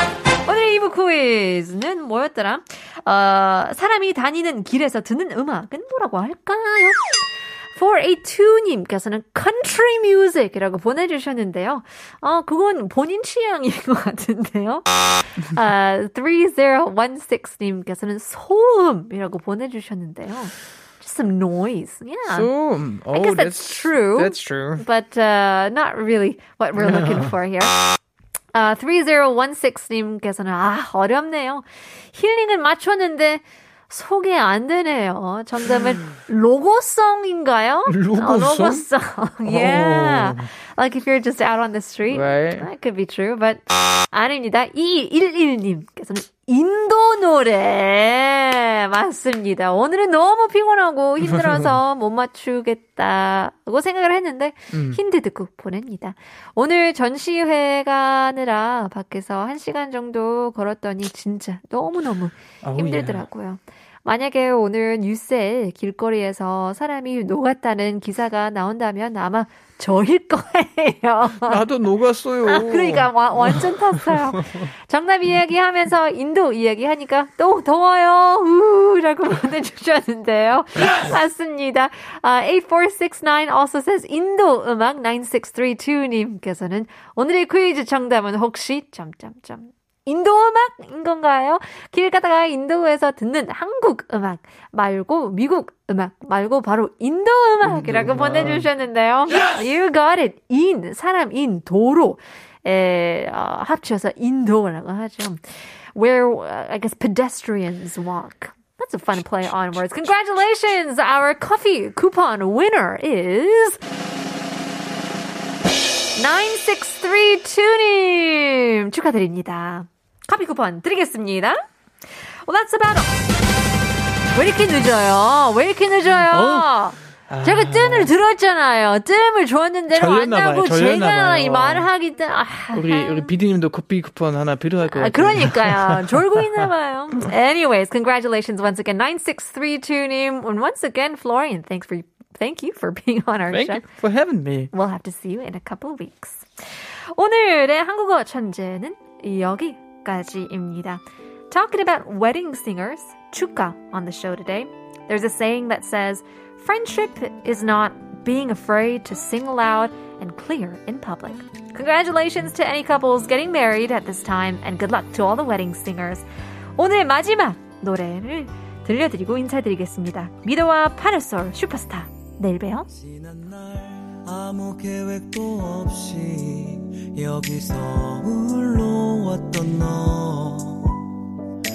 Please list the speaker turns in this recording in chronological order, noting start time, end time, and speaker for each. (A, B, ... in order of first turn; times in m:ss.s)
0:00.4-0:07.0 A
0:07.7-0:22.5 A
0:22.3-0:24.8 B
0:23.1-0:27.8 A
0:26.8-0:27.3 B
0:28.5-1:11.6 A
0:37.9-0:38.9 B
0:39.4-0:40.5 B
0:42.1-0:42.7 B
0:54.7-0:55.0 B
1:02.6-1:03.2 B
1:11.4-1:14.2 B
1:12.4-1:45.4 A
1:37.6-1:38.7 B
1:45.9-1:53.8 A
1:56.2-2:01.6 A
2:02.4-2:03.2 A
2:04.3-2:13.3 A
2:06.1-2:06.7 B
2:07.3-2:08.1 B
2:09.9-2:11.9 B
2:12.7-2:16.6 B
2:14.8-2:23.8 A
2:23.5-2:24.7 B
2:24.7-2:26.4 A
2:27.1-2:52.9 A
2:52.9-3:01.1 C